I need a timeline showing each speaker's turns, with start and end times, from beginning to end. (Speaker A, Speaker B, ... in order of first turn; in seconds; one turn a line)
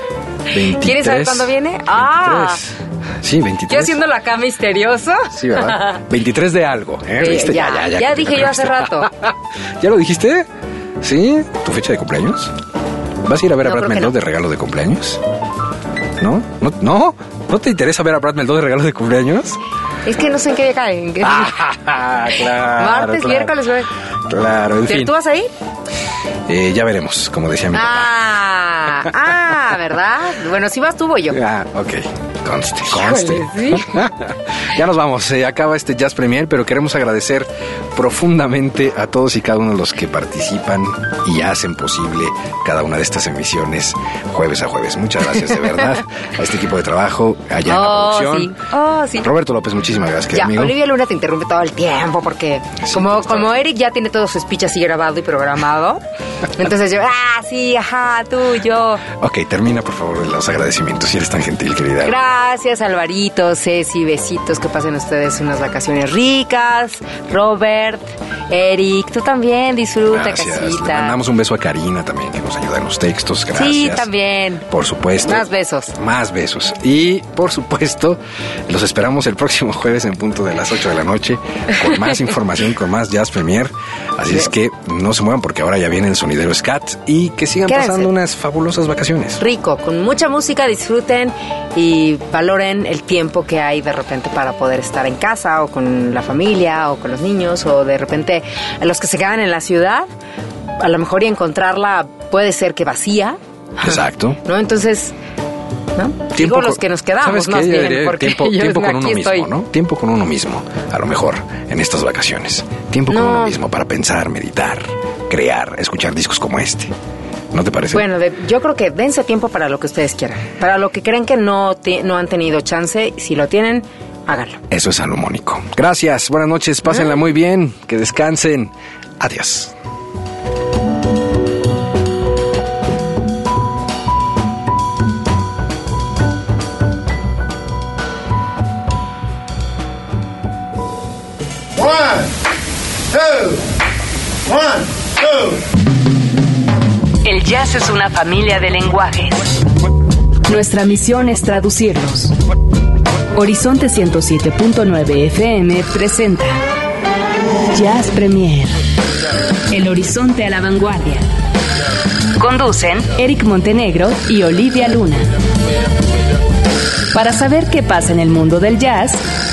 Speaker A: 0.5-4.0
Speaker B: 0.7-2.6
Speaker B: 3.7-6.0
Speaker A: 5.3-10.5
Speaker B: 7.2-9.1
Speaker A: 11.0-12.5
Speaker A: 13.2-15.2
Speaker B: 13.6-14.1
Speaker A: 16.2-19.6
Speaker B: 20.1-21.6
Speaker A: 21.2-23.5
Speaker B: 22.4-23.9
Speaker A: 24.3-25.1
Speaker B: 24.8-25.5
Speaker A: 26.5-28.2
Speaker B: 27.7-31.4
Speaker A: 31.3-48.5
Speaker B: 32.9-34.0
Speaker B: 47.7-49.3
Speaker A: 49.2-50.8
Speaker B: 50.3-56.0
Speaker A: 52.8-53.5
Speaker B: 56.5-59.0
Speaker A: 59.1-62.3
Speaker B: 62.0-71.2
Speaker A: 70.1-74.1
Speaker B: 73.5-74.6
Speaker A: 74.7-89.4
Speaker B: 75.2-75.9
Speaker B: 87.7-88.1
Speaker B: 89.4-100.1
Speaker B: 100.8-103.9
Speaker A: 103.8-104.4
Speaker B: 104.4-105.1
Speaker B: 106.0-109.5
Speaker A: 106.3-116.9
Speaker B: 113.1-113.5
Speaker A: 117.5-118.0
Speaker B: 117.9-124.6
Speaker A: 124.7-129.7
Speaker C: 147.2-149.5
Speaker C: 150.4-152.3
Speaker C: 153.3-156.6
Speaker C: 157.7-158.8
Speaker C: 159.7-161.2
Speaker C: 162.4-165.3
Speaker C: 167.1-169.2